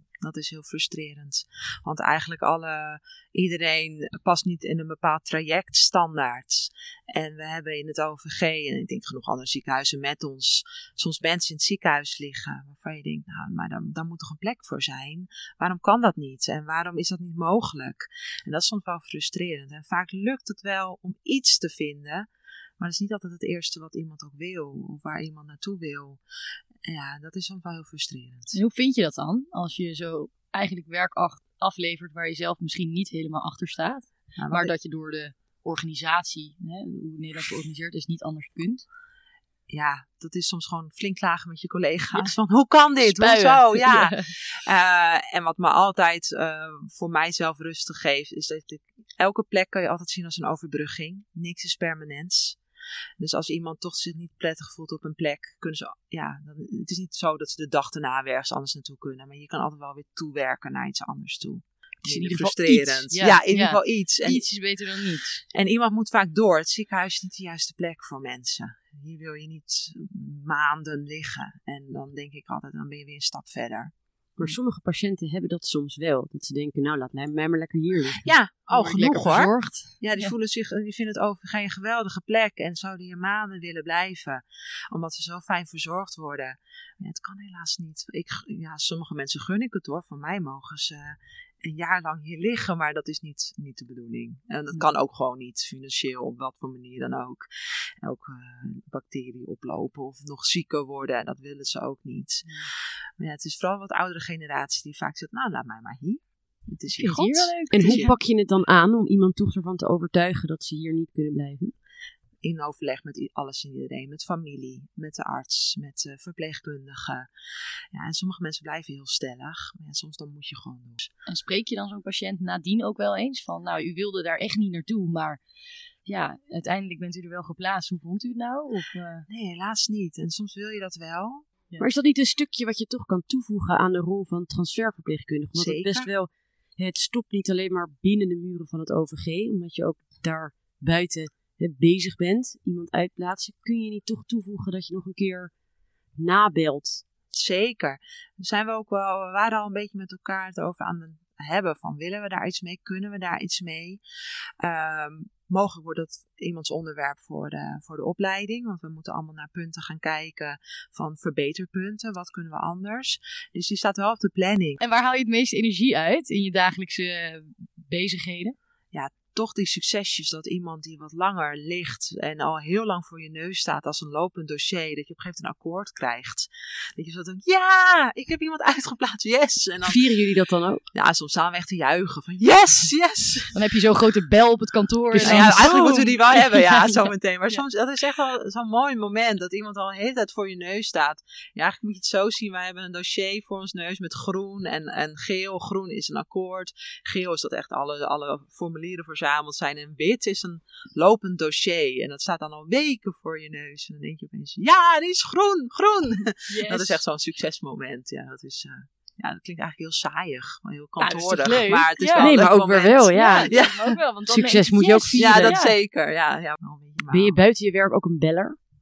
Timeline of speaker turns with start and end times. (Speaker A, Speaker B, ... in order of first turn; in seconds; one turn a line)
Speaker A: 0.2-22.3
Speaker A: 22.8-26.2
Speaker A: 26.9-28.6
Speaker B: 28.5-38.8
Speaker A: 34.4-34.7
Speaker A: 39.7-52.6
Speaker B: 43.0-44.3
Speaker A: 53.2-64.5
Speaker B: 62.0-65.4
Speaker A: 65.5-73.9
Speaker C: 74.3-78.3
Speaker A: 78.2-97.5
Speaker B: 78.7-80.3
Speaker A: 98.0-108.1
Speaker B: 106.9-108.1
Speaker C: 107.7-111.7
Speaker A: 112.4-117.3
Speaker A: 117.9-121.1
Speaker B: 121.3-125.4
Speaker B: 126.0-129.2
Speaker A: 129.3-131.5
Speaker C: 131.8-145.5
Speaker A: 135.6-136.1
Speaker C: 146.2-147.0
Speaker A: 147.3-154.0
Speaker A: 154.6-164.8
Speaker B: 164.8-168.6
Speaker A: 168.9-180.0
Speaker C: 179.8-180.8
Speaker A: 180.9-183.5
Speaker B: 183.5-187.0
Speaker C: 185.1-185.9
Speaker A: 185.2-213.9
Speaker B: 206.5-207.0
Speaker B: 211.0-212.3
Speaker C: 212.2-213.5
Speaker B: 213.1-215.7
Speaker C: 214.3-215.6
Speaker A: 215.2-217.3
Speaker C: 217.1-218.6